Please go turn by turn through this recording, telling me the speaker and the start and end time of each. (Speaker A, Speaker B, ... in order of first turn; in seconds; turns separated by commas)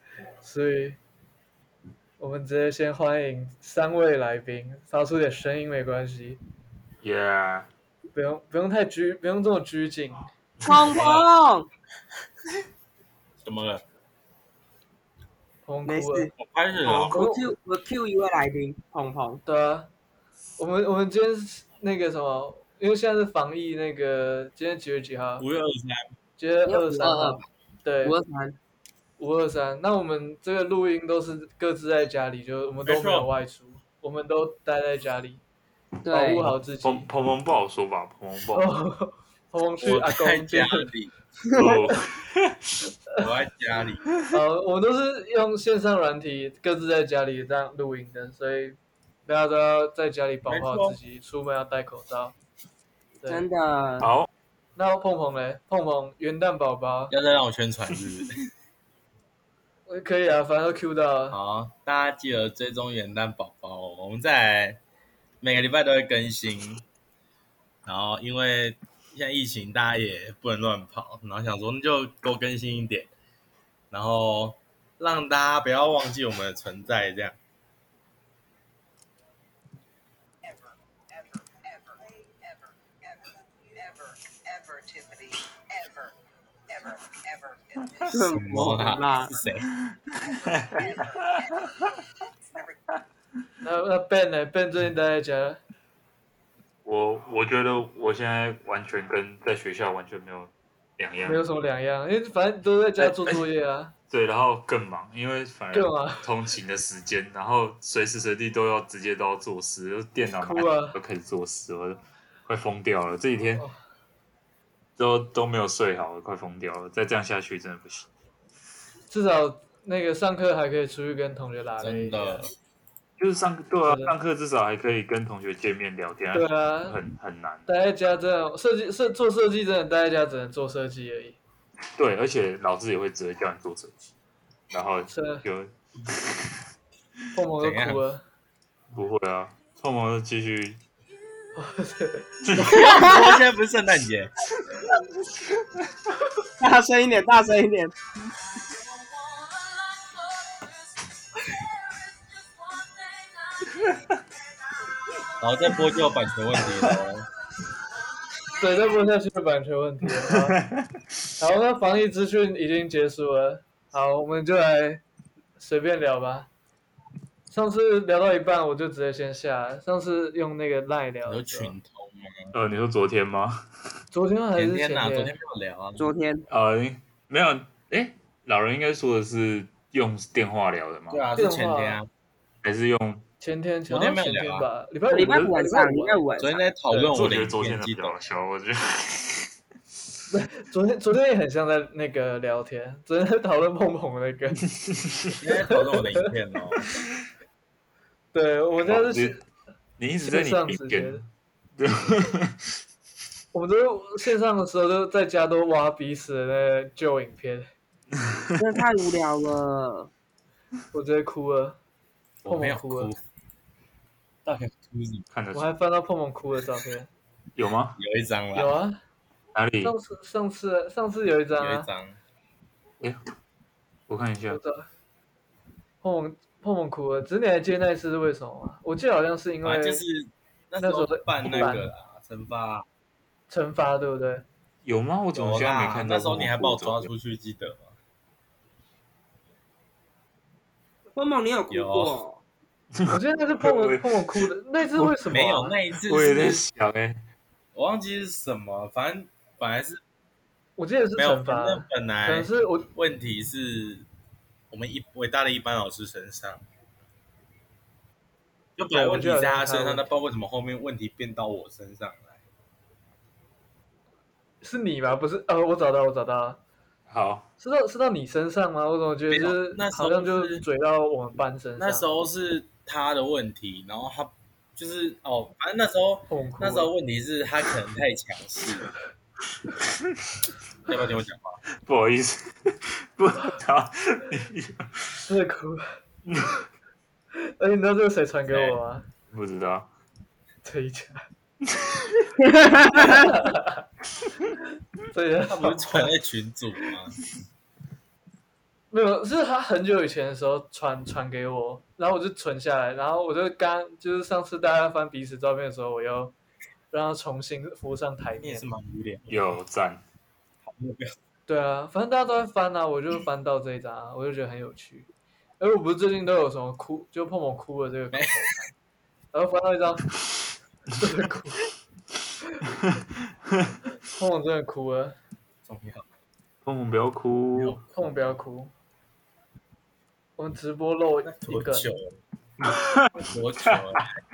Speaker A: 0.4-1.0, Speaker A: 2.2-6.4, Speaker B: 7.0-7.7, Speaker A: 8.1-10.3, Speaker C: 10.6-11.7, Speaker D: 10.8-11.3, Speaker D: 13.4-13.8, Speaker A: 15.6-16.3, Speaker C: 15.8-16.3, Speaker D: 16.4-17.2, Speaker C: 16.8-19.4, Speaker A: 17.1-17.5, Speaker A: 19.4-19.9, Speaker A: 20.6-25.4, Speaker D: 25.4-26.0, Speaker A: 26.4-28.1, Speaker C: 26.6-27.4, Speaker C: 28.0-28.6, Speaker A: 29.2-35.4, Speaker D: 32.8-33.3, Speaker C: 36.0-36.5, Speaker A: 36.1-37.1, Speaker B: 36.8-38.7, Speaker A: 38.5-40.9, Speaker D: 39.8-41.1, Speaker B: 41.5-42.5, Speaker D: 43.2-44.0, Speaker A: 44.3-52.4, Speaker D: 50.5-51.0, Speaker A: 53.2-53.5, Speaker C: 53.3-54.1, Speaker B: 54.0-54.3, Speaker A: 54.8-57.1, Speaker D: 57.1-58.3, Speaker A: 59.9-61.4, Speaker D: 61.3-64.8, Speaker D: 65.4-66.8, Speaker D: 67.8-73.1, Speaker D: 73.9-77.4, Speaker E: 80.4-86.1, Speaker E: 86.7-88.0, Speaker C: 88.1-89.3, Speaker D: 88.1-89.7, Speaker B: 90.1-91.9, Speaker E: 90.8-91.7, Speaker E: 92.5-92.8, Speaker A: 93.6-95.6, Speaker B: 96.8-101.4, Speaker A: 101.2-103.9, Speaker B: 103.0-103.4, Speaker B: 104.1-113.7, Speaker A: 105.7-106.3, Speaker A: 110.4-111.0, Speaker B: 115.0-118.1, Speaker A: 119.1-122.5, Speaker D: 121.8-122.5, Speaker B: 123.2-127.7, Speaker A: 123.8-124.1, Speaker A: 126.3-127.0, Speaker A: 127.7-131.4, Speaker B: 131.9-134.1, Speaker B: 134.7-136.6, Speaker A: 135.1-135.4, Speaker A: 137.3-138.2, Speaker D: 137.6-138.0, Speaker B: 138.9-140.8, Speaker A: 141.5-142.3, Speaker B: 142.4-142.9, Speaker D: 142.6-144.3, Speaker C: 142.9-143.2, Speaker C: 146.6-147.9, Speaker D: 155.4-157.3, Speaker B: 156.6-157.0, Speaker A: 158.5-160.6, Speaker B: 160.2-161.2, Speaker A: 161.4-165.0, Speaker A: 165.6-166.5, Speaker A: 167.5-171.7, Speaker D: 171.2-172.5, Speaker B: 172.5-173.6, Speaker A: 174.1-175.3, Speaker D: 174.5-176.1, Speaker C: 176.0-176.4, Speaker B: 176.5-181.2, Speaker D: 181.1-182.1, Speaker A: 181.4-182.0, Speaker B: 182.6-183.2, Speaker A: 183.4-186.2, Speaker D: 183.9-184.7, Speaker C: 185.1-186.6, Speaker D: 186.4-188.2, Speaker B: 186.9-189.5, Speaker A: 190.3-194.6, Speaker B: 194.9-195.3, Speaker D: 195.4-196.8, Speaker A: 198.3-199.4, Speaker B: 198.8-199.4, Speaker B: 200.0-201.2, Speaker A: 200.2-201.2, Speaker B: 201.8-202.6, Speaker A: 203.5-207.7, Speaker C: 208.6-210.1, Speaker A: 210.9-211.8, Speaker D: 212.4-213.2, Speaker A: 212.4-213.1, Speaker D: 214.4-215.2, Speaker B: 215.3-215.7, Speaker A: 215.5-217.1, Speaker B: 217.6-218.0, Speaker D: 218.0-218.7, Speaker A: 218.5-219.0, Speaker B: 219.5-219.9, Speaker A: 219.8-221.9, Speaker D: 221.6-222.2, Speaker B: 224.1-224.6, Speaker A: 224.5-224.9, Speaker A: 226.0-230.0, Speaker D: 229.6-232.8, Speaker A: 230.8-231.9, Speaker A: 233.5-234.4, Speaker B: 234.8-237.1, Speaker D: 235.3-237.9, Speaker C: 241.1-242.4, Speaker D: 241.7-242.2, Speaker B: 242.9-245.1, Speaker A: 243.1-245.8, Speaker D: 245.3-246.7, Speaker B: 246.1-247.2, Speaker D: 247.7-250.0, Speaker A: 250.8-252.9, Speaker D: 251.2-254.1, Speaker D: 254.7-256.6, Speaker D: 258.8-262.4, Speaker A: 258.9-260.1, Speaker A: 264.6-266.6, Speaker B: 267.1-267.5, Speaker A: 267.6-272.0, Speaker D: 269.3-270.6, Speaker D: 271.8-278.9, Speaker A: 276.3-276.9, Speaker B: 279.8-280.4, Speaker D: 280.9-281.6, Speaker B: 281.8-285.2, Speaker A: 285.3-285.9, Speaker B: 286.3-286.6, Speaker A: 287.4-289.1, Speaker D: 288.5-288.8, Speaker B: 289.3-289.9, Speaker A: 290.6-291.2, Speaker B: 291.6-292.2, Speaker C: 292.4-293.3, Speaker A: 292.9-293.8, Speaker A: 295.1-296.1, Speaker D: 295.5-297.2, Speaker A: 298.9-306.3, Speaker A: 306.9-308.7, Speaker D: 308.4-309.4, Speaker B: 309.3-310.0, Speaker D: 310.6-311.1, Speaker A: 311.5-318.6, Speaker D: 318.1-318.4, Speaker A: 319.3-320.1, Speaker A: 320.9-321.6, Speaker A: 324.1-325.1, Speaker D: 325.6-326.1, Speaker B: 326.6-327.8, Speaker D: 327.6-328.1, Speaker A: 327.9-328.7, Speaker A: 330.4-331.9, Speaker D: 331.2-332.2, Speaker B: 332.7-333.1, Speaker D: 333.1-334.0